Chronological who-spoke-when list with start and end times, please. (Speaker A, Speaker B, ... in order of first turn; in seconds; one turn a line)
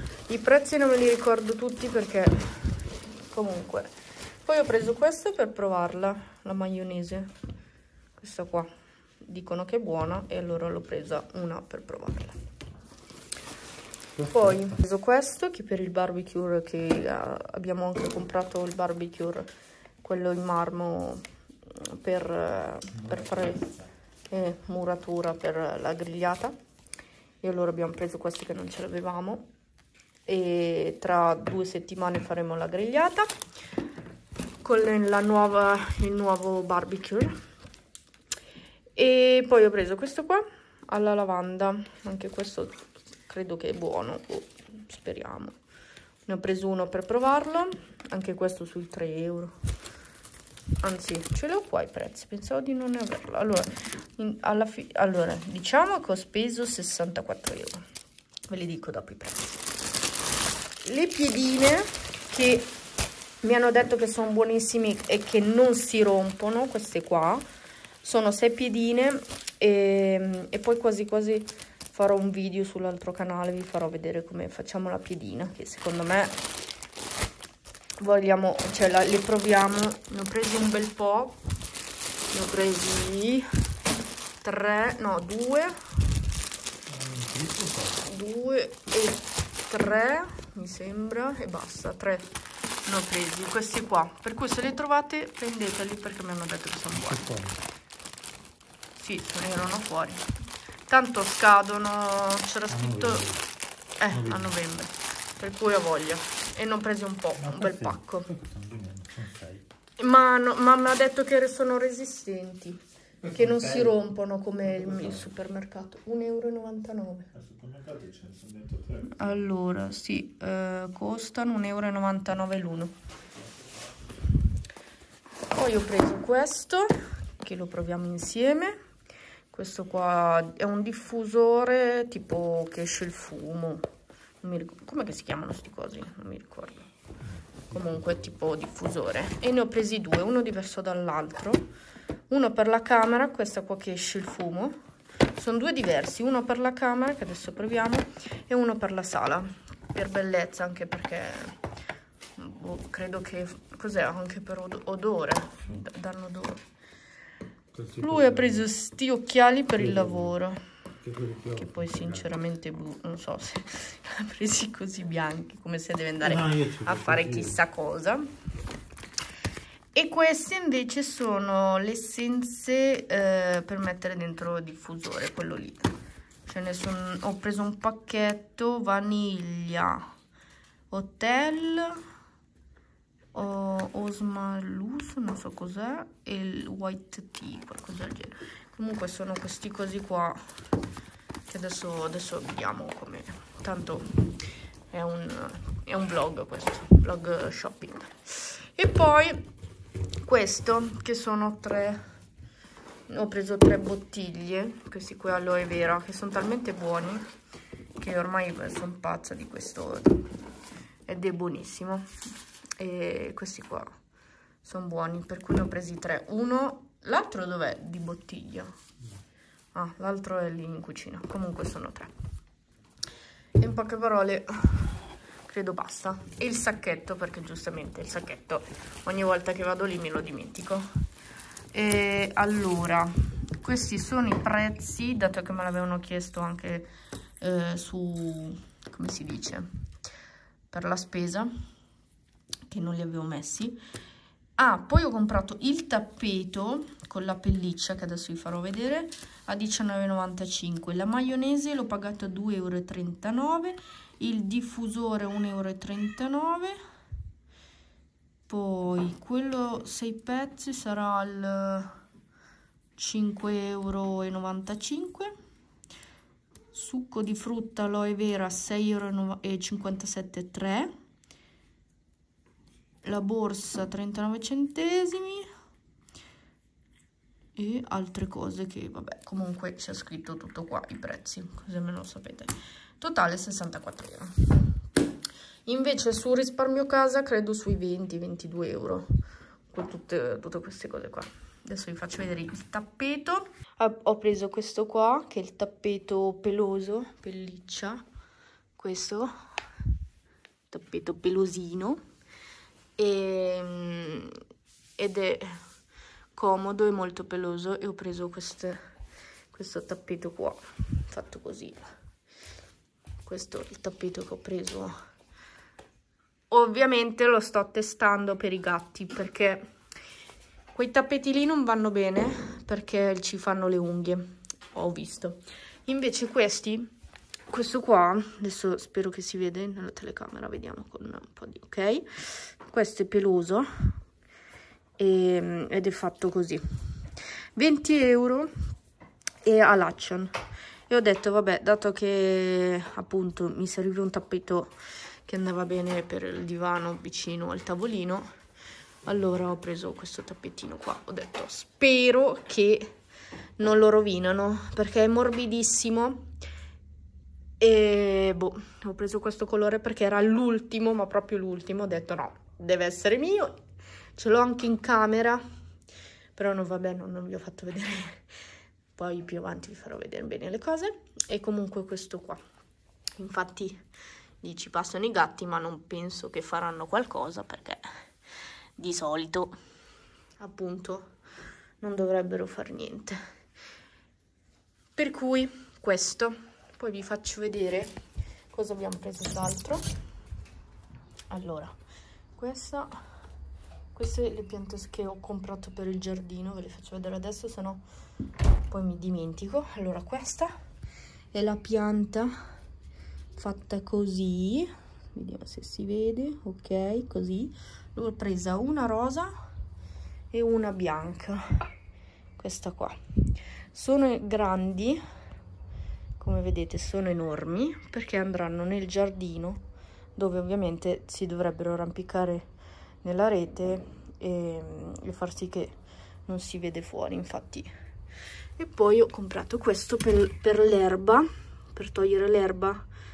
Speaker A: 0.3-3.9
Speaker A: 4.4-7.3
Speaker A: 8.2-8.7
Speaker A: 9.2-12.3
Speaker B: 14.2-14.7
Speaker A: 14.2-19.5
Speaker A: 20.0-21.2
Speaker A: 21.7-23.7
Speaker A: 24.3-26.5
Speaker A: 27.4-29.5
Speaker A: 30.2-33.3
Speaker A: 34.6-37.4
Speaker A: 39.0-45.6
Speaker A: 46.2-49.5
Speaker A: 50.8-57.8
Speaker A: 58.5-59.6
Speaker A: 60.8-62.7
Speaker A: 63.4-67.4
Speaker A: 68.0-76.4
Speaker A: 78.0-81.4
Speaker A: 82.3-83.5
Speaker A: 84.4-85.8
Speaker B: 86.9-88.0
Speaker A: 88.0-92.2
Speaker A: 92.8-97.4
Speaker B: 97.2-97.6
Speaker A: 99.0-100.2
Speaker A: 100.9-103.3
Speaker B: 102.7-103.4
Speaker A: 104.0-108.3
Speaker B: 104.1-104.5
Speaker B: 107.4-109.6
Speaker A: 110.0-117.3
Speaker B: 113.3-113.8
Speaker B: 117.3-119.2
Speaker A: 119.0-122.9
Speaker A: 125.4-128.8
Speaker A: 129.5-133.9
Speaker A: 134.4-136.8
Speaker A: 137.7-141.6
Speaker A: 142.3-144.8
Speaker A: 145.3-151.6
Speaker A: 152.4-156.6
Speaker B: 157.7-158.6
Speaker A: 158.0-160.6
Speaker B: 159.8-160.3
Speaker B: 161.0-162.2
Speaker A: 161.5-168.3
Speaker B: 166.2-167.6
Speaker A: 169.9-175.9
Speaker A: 176.4-180.1
Speaker A: 180.9-182.0
Speaker A: 183.3-190.4
Speaker A: 191.5-194.3
Speaker A: 194.9-199.4
Speaker A: 200.2-202.0
Speaker A: 203.1-207.2
Speaker A: 208.0-210.3
Speaker A: 211.1-212.1
Speaker A: 212.8-213.9
Speaker A: 214.6-218.8
Speaker A: 219.7-222.1
Speaker A: 223.6-230.9
Speaker A: 231.7-239.7
Speaker A: 240.7-241.5
Speaker A: 242.7-243.8
Speaker A: 244.6-256.8
Speaker A: 258.5-262.0
Speaker A: 262.9-265.3
Speaker A: 266.7-270.9
Speaker A: 273.0-275.5
Speaker A: 277.6-284.8
Speaker A: 285.6-289.1
Speaker A: 289.7-298.0
Speaker A: 298.8-299.3
Speaker A: 300.7-302.0
Speaker A: 303.0-304.4
Speaker A: 305.0-305.6
Speaker A: 306.3-308.8
Speaker A: 309.5-311.9
Speaker A: 313.2-314.9
Speaker A: 316.5-319.6
Speaker A: 320.7-326.9
Speaker A: 327.5-334.0
Speaker A: 335.0-337.0
Speaker A: 337.6-338.5
Speaker A: 339.4-340.3
Speaker A: 340.9-344.7
Speaker A: 345.2-348.3
Speaker A: 349.0-352.9
Speaker A: 353.6-356.3
Speaker A: 357.6-363.6
Speaker A: 364.1-365.4
Speaker A: 366.4-368.2
Speaker A: 368.9-372.4
Speaker A: 373.2-373.8
Speaker A: 374.4-377.8
Speaker A: 378.8-379.6
Speaker A: 380.4-381.1
Speaker A: 381.8-383.2
Speaker A: 384.9-387.9
Speaker A: 388.5-389.8
Speaker A: 391.3-391.7
Speaker A: 392.4-393.0
Speaker A: 393.9-397.8
Speaker A: 398.7-400.5
Speaker A: 401.3-402.3
Speaker A: 403.4-409.3
Speaker A: 410.3-411.6
Speaker A: 412.4-413.0
Speaker A: 413.7-415.0
Speaker A: 416.2-419.6
Speaker A: 420.1-422.5
Speaker A: 423.0-427.7
Speaker A: 428.6-432.8